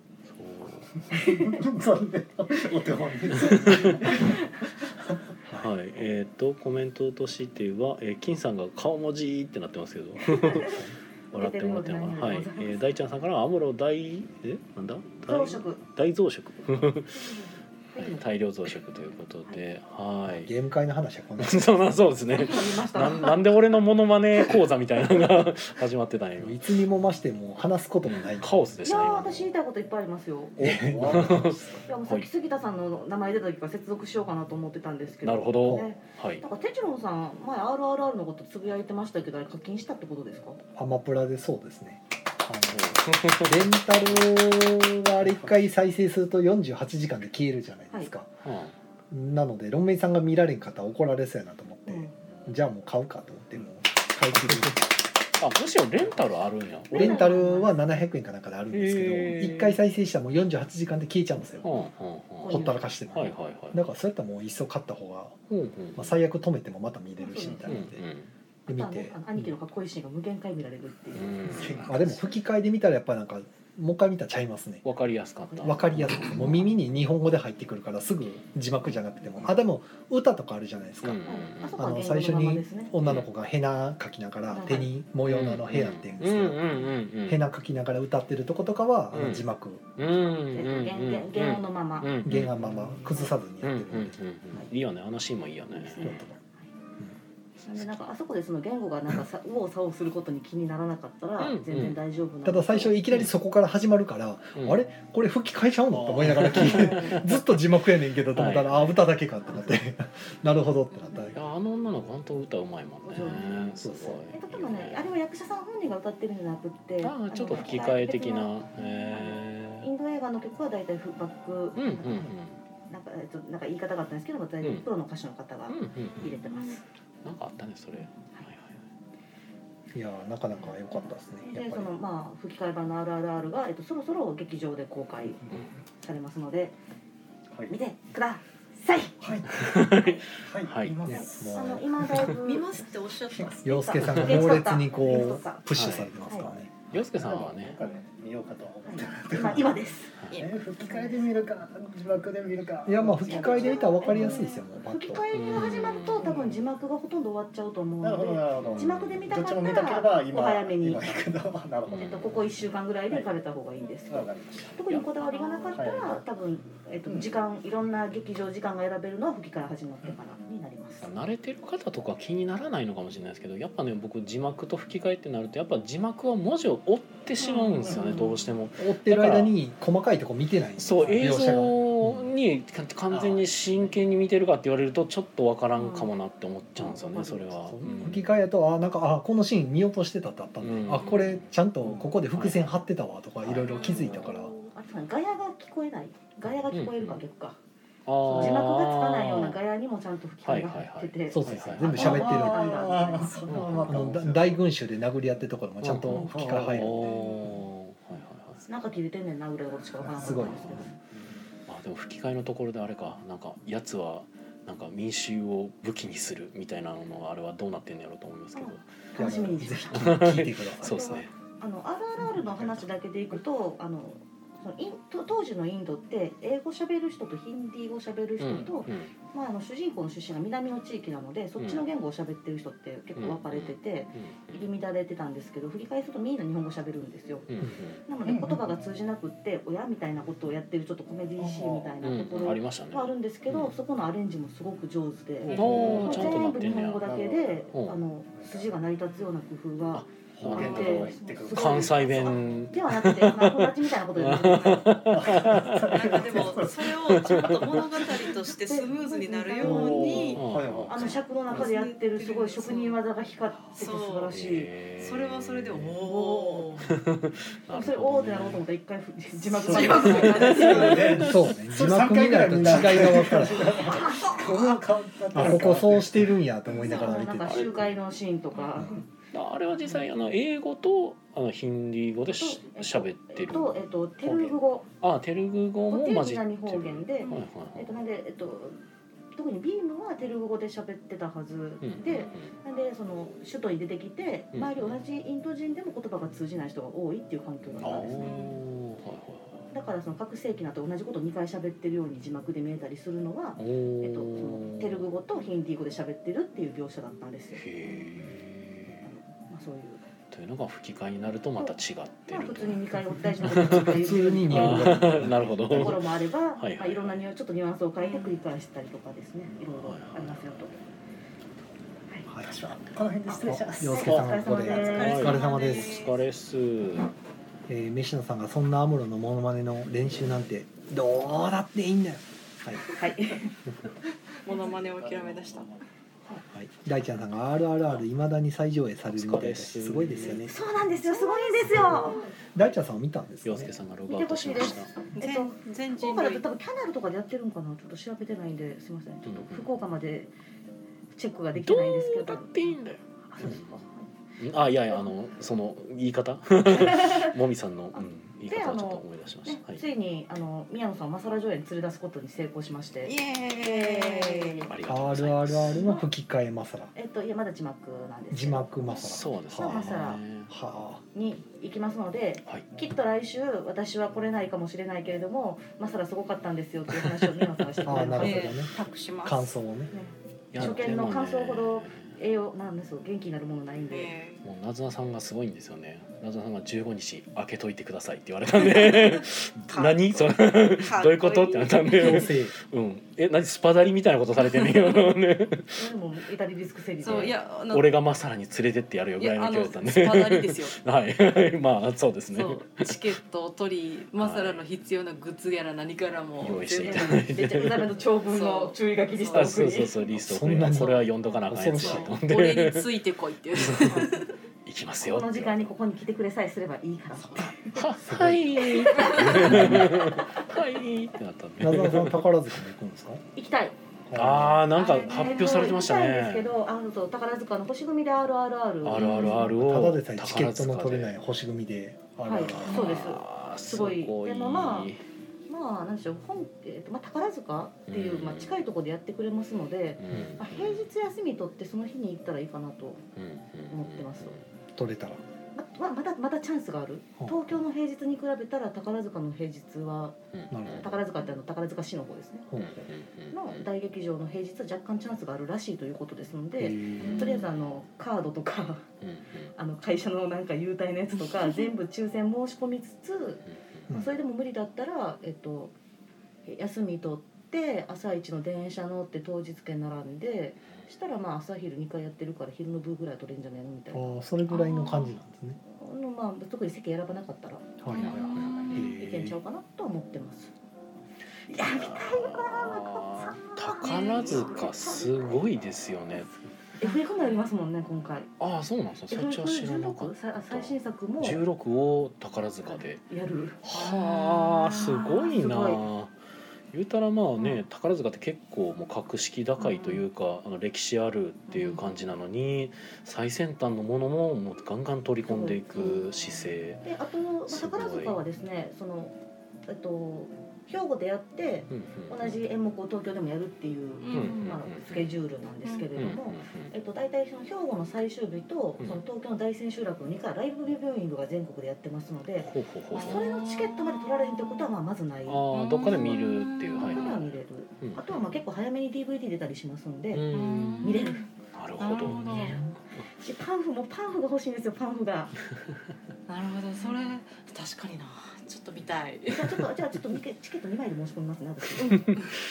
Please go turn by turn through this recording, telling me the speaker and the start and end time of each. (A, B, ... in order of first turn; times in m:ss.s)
0:00.3-0:00.9 A
0:01.0-0:05.2 B
0:03.4-0:04.1 A
0:05.5-0:17.2 A
0:10.3-0:10.8 C
0:10.7-0:10.9 D
0:11.3-0:12.9 C
0:15.2-0:15.8 C
0:17.2-0:18.2 C
0:18.0-0:20.5 A
0:20.3-0:21.8 D
0:21.4-0:26.6 A
0:22.3-0:23.4 C
0:26.4-0:28.6 D
0:28.0-0:29.5 A
0:28.8-0:30.6 C
0:30.6-0:31.8 D
0:30.6-0:32.2 A
0:30.7-0:31.5 B
0:31.8-0:40.6 C
0:35.2-0:36.4 A
0:35.6-0:35.9 D
0:40.7-0:48.3 D
0:42.7-0:43.7 A
0:48.4-0:48.7 A
0:49.1-0:54.9 D
0:51.9-0:52.1 C
0:54.5-0:54.7 A
0:55.4-0:57.3 A
0:56.9-0:58.0 C
0:56.9-1:01.7 D
0:58.7-0:59.8 A
1:01.6-1:03.8 A
1:02.4-1:02.8 C
1:02.4-1:05.4 D
1:05.5-1:06.2 A
1:06.0-1:08.0 D
1:07.2-1:07.8 C
1:07.6-1:08.3 A
1:08.7-1:09.2 D
1:08.7-1:11.8 C
1:11.1-1:11.9 A
1:11.4-1:12.2 B
1:11.8-1:14.8 D
1:14.8-1:16.7 A
1:15.5-1:15.8 C
1:15.6-1:30.0 D
1:21.0-1:21.7 A
1:21.2-1:22.9 C
1:24.5-1:24.9 C
1:25.2-1:27.4 A
1:29.1-1:29.4 A
1:30.0-1:32.8 A
1:30.5-1:32.2 C
1:32.2-1:34.7 D
1:33.6-1:36.2 A
1:35.7-1:36.7 C
1:36.0-1:36.4 D
1:37.6-1:43.0 C
1:41.4-1:42.0 A
1:42.4-1:51.4 D
1:44.6-1:44.8 A
1:45.9-1:46.5 B
1:46.3-1:47.3 A
1:46.8-1:47.2 C
1:48.3-1:49.0 A
1:51.3-1:55.1 A
1:53.0-2:02.3 C
1:53.8-1:54.2 D
1:57.0-1:59.9 A
2:01.8-2:02.6 A
2:02.9-2:06.8 C
2:04.6-2:04.9 A
2:05.7-2:06.4 A
2:06.4-2:06.8 E
2:07.2-2:08.8 A
2:09.9-2:11.9 D
2:11.4-2:15.5 C
2:16.0-2:16.8 C
2:17.7-2:19.2 C
2:19.2-2:19.7 B
2:19.5-2:21.0 A
2:19.7-2:20.2 C
2:20.3-2:22.3 B
2:21.1-2:21.9 D
2:21.1-2:23.0 C
2:22.3-2:24.2 E
2:23.3-2:24.3 B
2:23.6-2:26.9 D
2:23.6-2:25.6 C
2:25.7-2:26.1 A
2:26.2-2:26.5 C
2:26.9-2:27.8 A
2:27.1-2:34.4 B
2:28.8-2:30.1 C
2:30.9-2:31.2 C
2:32.8-2:35.2 D
2:33.2-2:41.0 C
2:35.3-2:36.4 A
2:36.3-2:36.6 B
2:38.0-2:42.4 B
2:38.6-2:39.2 A
2:41.9-2:42.3 A
2:41.9-2:51.1 C
2:44.1-2:44.9 B
2:45.7-2:46.2 B
2:47.1-2:47.3 B
2:51.0-2:59.5 A
2:57.4-2:58.4 C
2:58.8-3:02.3 D
3:00.8-3:08.2 A
3:03.1-3:03.9 B
3:05.7-3:06.1 C
3:06.8-3:08.1 C
3:07.7-3:14.5 D
3:10.6-3:12.7 A
3:13.4-3:14.4 A
3:13.6-3:14.1 E
3:14.1-3:17.6 C
3:16.7-3:17.2 A
3:18.0-3:19.6 A
3:18.2-3:23.4 C
3:20.4-3:22.2 A
3:21.3-3:22.8 D
3:21.8-3:24.6 B
3:23.4-3:24.2 A
3:23.8-3:27.2 D
3:25.8-3:28.6 A
3:26.1-3:27.0 B
3:27.0-3:27.6 E
3:28.7-3:31.0 C
3:30.1-3:30.8 D
3:30.4-3:30.8 A
3:31.7-3:38.8 A
3:38.5-3:40.3 C
3:39.1-3:41.2 D
3:39.9-3:41.3 A
3:40.8-3:57.5 C
3:42.4-3:42.8 B
3:48.4-3:49.1 A
3:53.2-3:54.6 A
3:57.5-3:58.0 A
3:58.0-4:15.6 C
3:58.2-3:58.7 B
4:01.4-4:02.0 B
4:02.0-4:03.7 A
4:05.4-4:07.7 B
4:05.5-4:07.1 A
4:08.4-4:08.7 B
4:09.9-4:18.0 A
4:10.4-4:12.4 B
4:15.1-4:16.9 B
4:15.8-4:20.4 E
4:18.4-4:24.7 C
4:19.6-4:21.6 B
4:20.3-4:21.0 A
4:21.5-4:23.0 E
4:23.8-4:24.3 E
4:24.3-4:26.0 A
4:25.0-4:26.9 E
4:26.0-4:26.8 C
4:26.8-4:28.6 A
4:27.7-4:31.3 C
4:29.5-4:31.1 E
4:29.8-4:36.2 B
4:29.9-4:31.1 A
4:31.1-4:33.9 D
4:33.9-4:34.4 C
4:35.3-4:37.8 D
4:36.8-4:39.0 C
4:37.4-4:37.8 A
4:39.3-4:43.8 A
4:42.3-4:44.9 C
4:44.2-4:44.6 B
4:45.0-4:47.9 A
4:45.9-4:48.8 C
4:47.2-4:47.5 E
4:49.3-4:58.4 C
4:51.8-4:52.5 A
4:54.5-4:54.9 A
4:57.8-4:59.6 A
4:58.1-4:58.6 E
4:59.7-5:07.7 C
5:03.6-5:05.0 A
5:07.6-5:09.1 A
5:09.0-5:10.0 C
5:10.3-5:17.2 A
5:12.3-5:20.8 C
5:13.6-5:16.0 D
5:18.0-5:18.4 E
5:19.7-5:20.7 A
5:22.4-5:25.0 B
5:23.3-5:25.4 C
5:23.4-5:26.0 D
5:24.8-5:26.2 E
5:25.0-5:27.1 A
5:27.7-5:32.9 D
5:32.9-5:33.5 C
5:34.4-5:35.7 E
5:34.5-5:35.7 B
5:36.5-5:40.6 D
5:39.1-5:40.5 A
5:40.5-5:42.2 C
5:41.0-5:42.3 E
5:42.5-5:43.7 D
5:43.4-5:44.9 A
5:44.1-5:50.3 C
5:45.1-5:46.4 E
5:49.2-5:49.7 A
5:51.1-5:52.8 C
5:51.5-5:53.8 A
5:53.3-5:54.1 C
5:54.4-5:59.8 A
5:56.8-5:57.3 C
5:57.9-6:04.7 C
6:03.0-6:04.7 E
6:04.7-6:05.9 A
6:04.8-6:06.9 D
6:05.8-6:06.0 C
6:06.9-6:10.2 C
6:08.3-6:11.0 D
6:09.0-6:10.5 A
6:11.1-6:18.6 C
6:16.9-6:17.6 A
6:17.8-6:19.9 D
6:18.0-6:19.5 E
6:19.9-6:24.1 C
6:20.5-6:22.1 A
6:20.6-6:20.9 D
6:23.9-6:24.4 E
6:24.4-6:35.9 A
6:28.6-6:32.3 E
6:31.9-6:32.5 D
6:35.7-6:37.4 C
6:37.0-6:37.9 E
6:37.1-6:43.0 A
6:39.2-6:40.8 E
6:42.3-6:47.4 E
6:44.2-6:44.6 A
6:46.4-6:48.0 A
6:46.7-6:50.0 C
6:48.2-6:49.9 E
6:49.3-6:53.0 A
6:50.2-6:52.2 D
6:50.7-6:54.3 E
6:53.5-6:54.1 A
6:53.9-6:54.2 C
6:54.6-6:55.7 A
6:55.0-6:57.8 C
6:57.6-7:02.4 A
6:58.0-7:00.0 D
6:58.6-7:00.1 C
7:01.6-7:03.2 D
7:03.3-7:03.8 C
7:04.0-7:04.7 D
7:04.1-7:06.5 A
7:04.7-7:09.5 C
7:04.9-7:05.7 E
7:08.8-7:11.2 A
7:09.0-7:09.4 E
7:09.4-7:12.9 D
7:12.2-7:14.9 C
7:12.6-7:15.0 A
7:15.5-7:23.0 C
7:17.9-7:18.6 A
7:20.0-7:20.8 A
7:20.1-7:20.4 D
7:23.2-7:24.4 A
7:23.7-7:24.4 C
7:24.8-7:25.2 D
7:25.6-7:30.2 C
7:30.3-7:31.0 A
7:30.5-7:31.0 D
7:30.8-7:32.5 C
7:32.5-7:32.9 D
7:32.6-7:33.6 A
7:33.3-7:38.8 C
7:36.6-7:37.3 D
7:37.0-7:37.5 E
7:39.0-7:39.5 A
7:39.6-7:45.7 C
7:46.4-7:54.1 C
7:53.9-7:55.6 D
7:54.5-7:55.1 E
7:55.6-8:00.5 C
7:57.8-7:59.3 D
7:57.9-7:58.9 E
7:57.9-7:59.3 A
8:01.5-8:05.7 C
8:01.5-8:06.3 A
8:03.8-8:04.6 E
8:06.8-8:08.3 C
8:08.4-8:13.0 A
8:09.1-8:11.4 C
8:13.1-8:15.8 C
8:13.6-8:16.1 A
8:13.7-8:14.3 E
8:16.7-8:26.8 A
8:19.6-8:20.0 E
8:25.2-8:26.2 C
8:26.8-8:29.1 C
8:27.5-8:28.2 A
8:29.6-8:51.3 C
8:31.7-8:32.4 A
8:34.0-8:34.5 E
8:34.1-8:35.1 A
8:36.0-8:36.7 A
8:42.4-8:43.3 A
8:42.9-8:44.7 E
8:45.3-8:48.2 A
8:45.5-8:47.2 E
8:50.1-8:52.7 A
8:50.3-8:51.3 E
8:51.8-8:52.6 E
8:52.1-8:52.7 D
8:53.2-8:55.3 C
8:56.3-8:59.7 E
8:59.3-9:02.2 C